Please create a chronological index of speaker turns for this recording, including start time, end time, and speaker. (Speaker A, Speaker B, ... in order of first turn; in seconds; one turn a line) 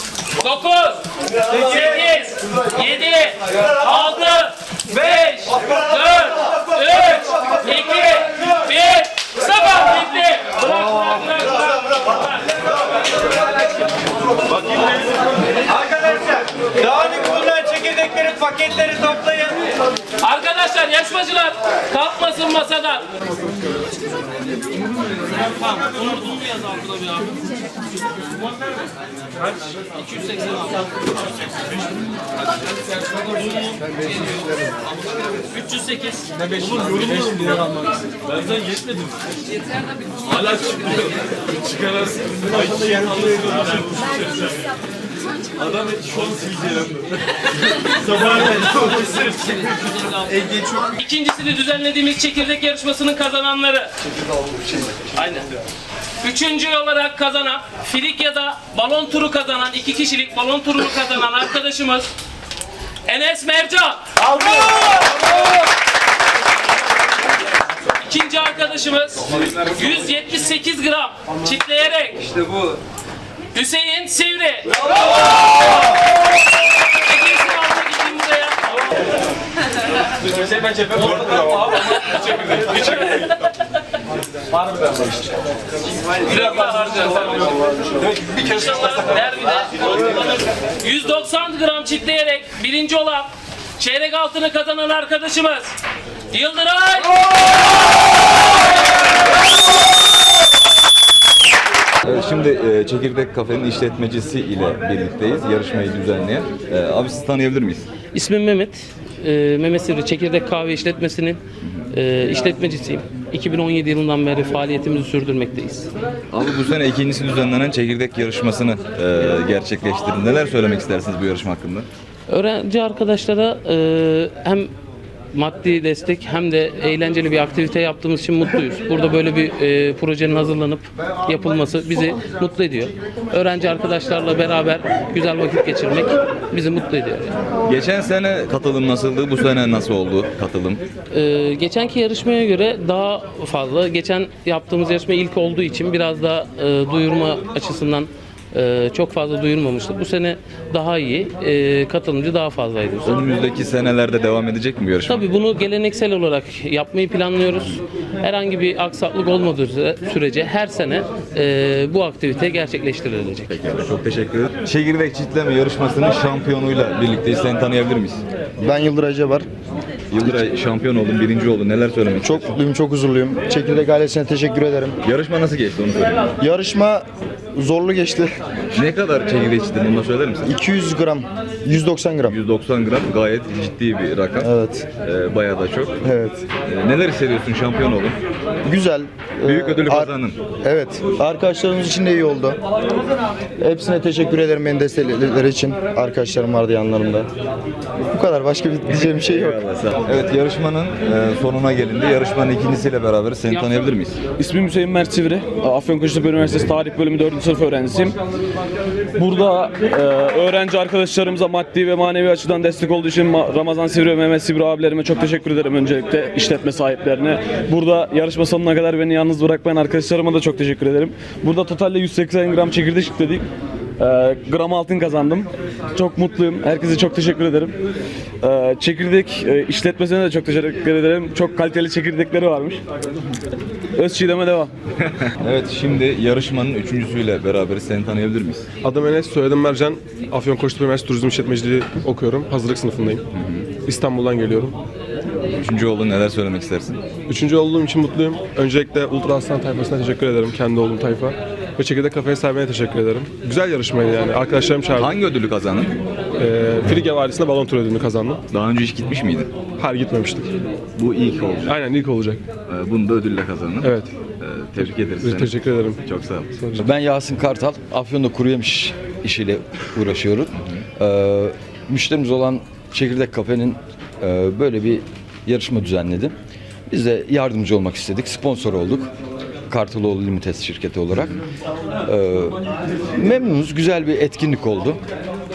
Speaker A: 0.4-12.5
Speaker B: 15.8-19.7
Speaker A: 20.2-23.1
Speaker A: 25.8-27.1
Speaker A: 35.5-36.3
Speaker C: 36.6-37.6
Speaker C: 40.4-40.7
Speaker C: 42.1-43.7
Speaker B: 42.9-43.2
Speaker A: 50.3-53.9
Speaker A: 55.1-55.5
Speaker A: 56.2-62.1
Speaker A: 63.0-65.1
Speaker A: 68.0-72.4
Speaker A: 73.5-74.9
Speaker A: 75.6-76.0
Speaker A: 76.9-78.9
Speaker A: 81.1-83.3
Speaker A: 86.2-95.8
Speaker A: 96.3-97.4
Speaker D: 102.0-107.9
Speaker A: 108.1-115.9
Speaker D: 116.3-121.9
Speaker A: 122.3-124.7
Speaker A: 125.3-137.4
Speaker D: 137.7-140.8
Speaker A: 141.1-153.2
Speaker D: 153.0-155.3
Speaker A: 155.1-163.5
Speaker D: 163.5-168.2
Speaker E: 168.6-169.5
Speaker D: 170.1-172.6
Speaker E: 170.2-170.5
Speaker E: 172.2-175.0
Speaker D: 175.0-176.3
Speaker E: 176.4-178.3
Speaker D: 178.7-180.5
Speaker E: 180.4-182.4
Speaker D: 182.3-186.0
Speaker E: 184.4-184.9
Speaker E: 186.0-186.4
Speaker D: 186.7-188.2
Speaker E: 188.6-192.6
Speaker D: 189.4-190.4
Speaker E: 193.6-197.3
Speaker E: 198.1-199.6
Speaker D: 198.9-204.2
Speaker A: 203.5-203.8
Speaker F: 204.4-208.2
Speaker F: 209.1-223.5
Speaker F: 224.0-227.8
Speaker F: 228.4-232.8
Speaker F: 234.0-234.7
Speaker D: 235.0-238.7
Speaker C: 238.8-244.8
Speaker D: 243.4-243.7
Speaker D: 245.6-247.0
Speaker C: 247.3-255.2
Speaker D: 255.0-256.0
Speaker C: 256.4-258.4
Speaker D: 258.5-259.5
Speaker C: 259.8-260.5
Speaker D: 261.0-261.8
Speaker C: 261.6-262.4
Speaker D: 262.7-266.5
Speaker C: 263.8-264.1
Speaker C: 265.2-266.0
Speaker C: 266.6-266.9
Speaker G: 266.8-276.3
Speaker G: 276.9-279.1
Speaker G: 279.7-281.4
Speaker G: 282.1-282.6
Speaker G: 283.1-285.0